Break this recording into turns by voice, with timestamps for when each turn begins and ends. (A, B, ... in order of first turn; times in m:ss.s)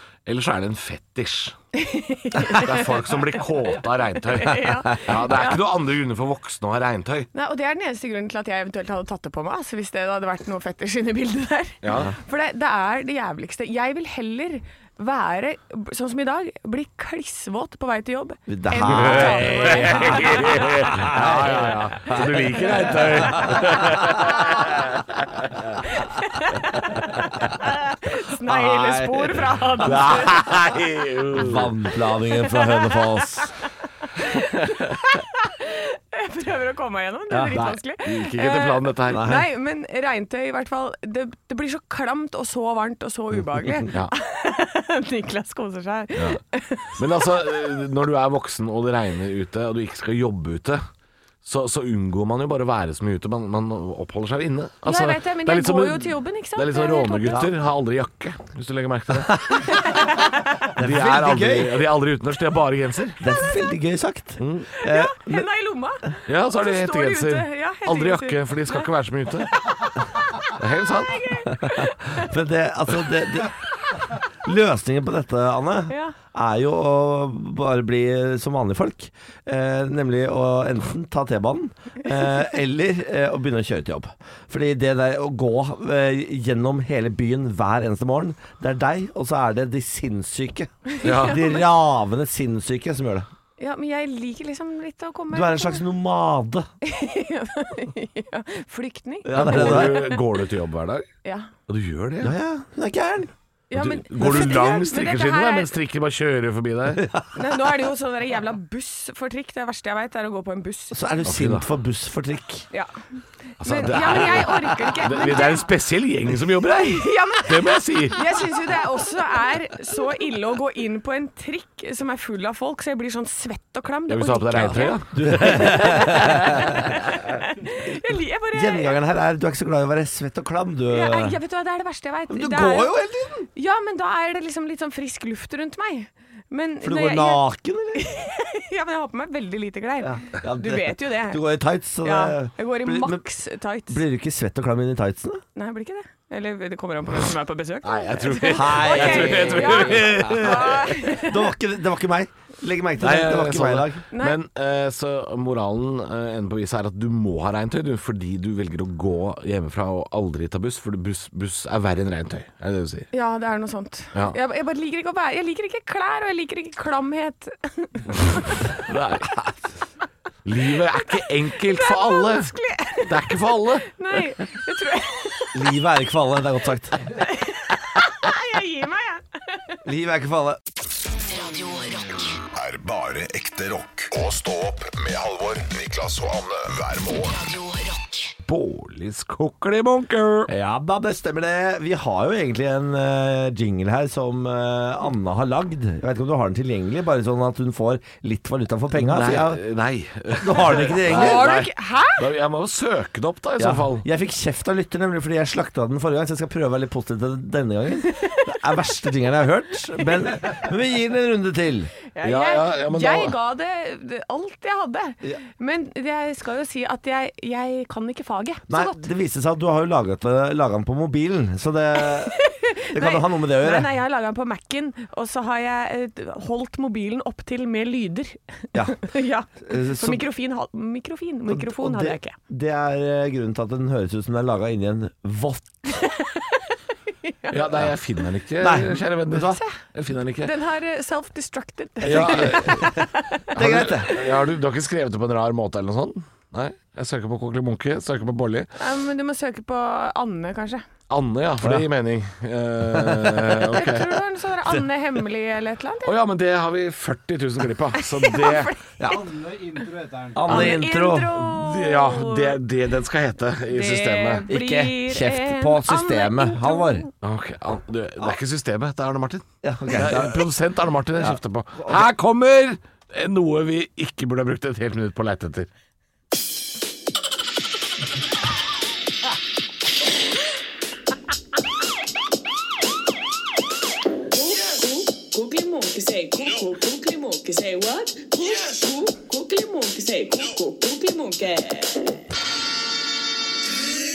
0:00.2-0:01.6 A
0:01.7-0:03.1 B
0:02.5-0:07.3 A
0:04.3-0:05.6 B
0:07.3-0:20.9 B
0:11.8-0:12.1 A
0:18.5-0:24.4 C
0:18.8-0:25.8 A
0:22.6-0:23.5 B
0:24.2-0:24.5 B
0:25.8-0:26.8 B
0:26.9-0:27.3 A
0:27.4-0:30.4 B
0:28.4-0:30.0 C
0:29.8-0:31.7 A
0:31.3-0:33.5 C
0:32.3-0:33.6 B
0:34.2-0:47.3 B
0:34.6-0:34.9 A
0:37.3-0:37.6 C
0:37.5-0:39.3 A
0:39.1-0:39.4 C
0:43.5-0:43.9 C
0:47.0-0:50.8 A
0:51.4-0:59.8 A
0:54.8-0:57.4 B
0:59.2-0:59.6 C
0:59.6-1:00.6 B
1:00.8-1:01.8 C
1:00.8-1:03.2 A
1:03.2-1:05.4 C
1:04.4-1:04.7 A
1:04.8-1:08.9 B
1:06.2-1:09.6 A
1:10.4-1:11.3 A
1:11.1-1:12.3 B
1:11.6-1:33.3 C
1:15.9-1:16.2 B
1:30.9-1:31.6 B
1:31.0-1:31.5 A
1:33.6-1:35.8 B
1:35.3-1:36.7 C
1:36.8-1:40.2 B
1:39.2-1:40.1 C
1:39.3-1:41.1 A
1:41.2-1:41.5 B
1:41.7-1:42.3 A
1:42.2-1:43.3 C
1:43.7-1:45.7 B
1:43.7-1:47.1 A
1:44.2-1:44.6 C
1:47.0-1:47.3 C
1:47.3-1:51.1 B
1:50.9-1:52.7 C
1:51.2-1:51.7 A
1:53.6-1:55.7 B
1:53.6-1:58.2 A
1:54.1-1:54.4 C
1:56.7-2:09.0 B
2:04.1-2:06.3 A
2:05.1-2:07.0 C
2:08.5-2:11.4 C
2:10.9-2:13.0 B
2:12.3-2:13.5 C
2:13.5-2:21.4 B
2:16.8-2:18.0 C
2:20.0-2:23.2 C
2:22.0-2:24.0 B
2:23.9-2:25.4 C
2:25.5-2:31.5 B
2:27.8-2:30.8 A
2:28.4-2:34.0 C
2:33.0-2:43.1 A
2:34.1-2:34.4 B
2:43.1-2:48.8 B
2:48.8-2:49.6 A
2:50.4-2:52.5 A
2:50.9-2:53.3 B
2:53.0-2:54.0 A
2:53.9-2:55.6 B
2:55.5-2:57.0 C
2:57.1-2:59.8 B
2:59.8-3:00.6 C
3:01.1-3:02.4 D
3:02.5-3:07.4 E
3:07.2-3:08.3 D
3:08.4-3:10.5 A
3:10.5-3:19.6 C
3:18.9-3:24.0 A
3:20.4-3:21.4 C
3:21.0-3:22.2 B
3:23.6-3:31.9 C
3:32.1-3:39.0 B
3:32.2-3:33.3 A
3:38.7-3:43.9 C
3:42.3-3:52.3 B
3:49.6-3:50.2 C
3:51.5-3:55.9 C
3:55.9-3:57.8 B
3:57.5-4:00.5 A
3:58.6-3:59.6 C
3:59.5-3:59.8 B
4:00.4-4:03.4 B
4:02.0-4:02.9 A
4:02.0-4:04.1 C
4:03.5-4:08.7 A
4:04.0-4:04.3 B
4:08.8-4:10.8 B
4:11.1-4:14.2 A
4:12.9-4:13.6 C
4:13.7-4:16.2 B
4:16.0-4:18.8 A
4:18.0-4:22.6 B
4:19.0-4:19.6 C
4:20.3-4:21.3 C
4:20.5-4:24.5 A
4:23.7-4:27.1 B
4:24.5-4:27.0 C
4:27.2-4:35.7 A
4:29.6-4:30.5 C
4:31.2-4:32.0 C
4:44.3-4:52.2 B